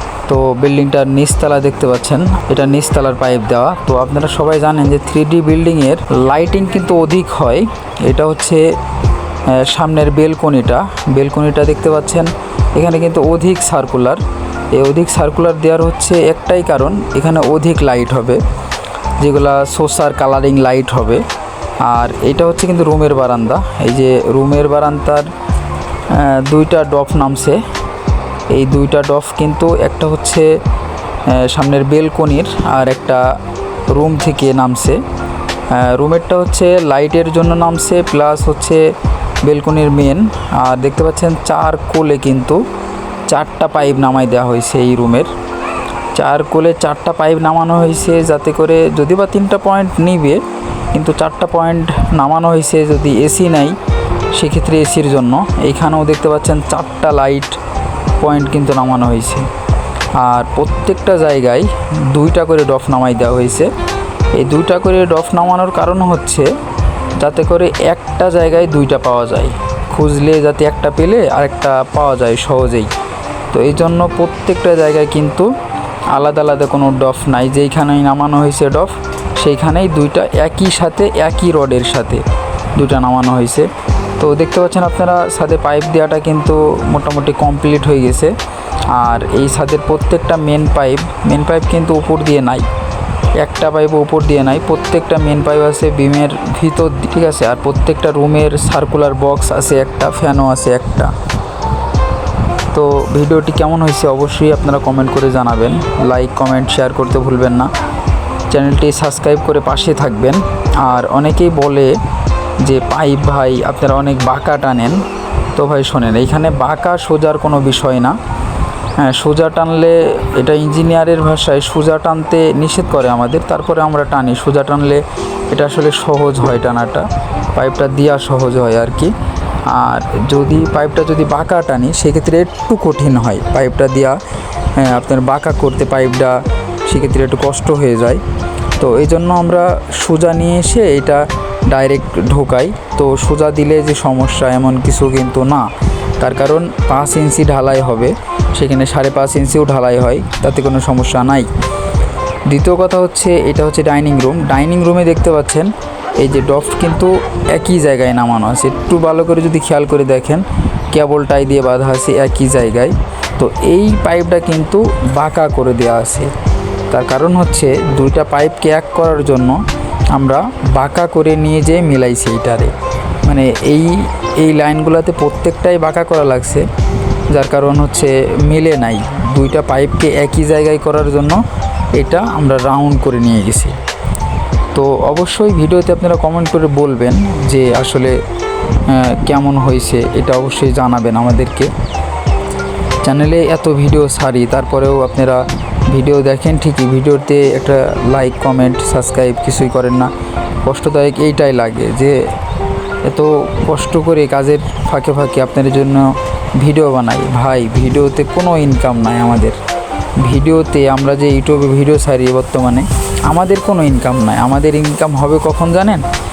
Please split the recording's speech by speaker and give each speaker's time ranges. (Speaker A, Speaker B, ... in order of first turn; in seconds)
Speaker A: 0.3-8.7, 9.5-14.2, 14.7-18.4, 19.2-21.2, 21.8-25.3, 26.1-27.6, 28.5-30.6, 31.3-33.2, 33.9-35.0, 35.7-38.8, 39.4-42.6, 43.3-45.3, 46.1-50.4, 50.9-53.8, 54.3-57.6, 58.2-59.5, 60.1-63.7, 64.3-66.5, 67.2-72.9, 73.5-75.5, 76.1-88.3, 88.9-92.7, 93.3-101.1, 102.7-107.7, 108.5-112.0, 112.6-115.0, 115.5-118.2, 119.0-129.1, 129.7-134.2, 134.7-138.2, 138.8-151.5, 152.5-166.3, 166.9-176.7, 177.3-181.4, 181.9-183.8, 184.7-188.2, 188.8-191.7, 193.0-200.1, 200.6-202.3, 203.0-209.6, 210.2-216.0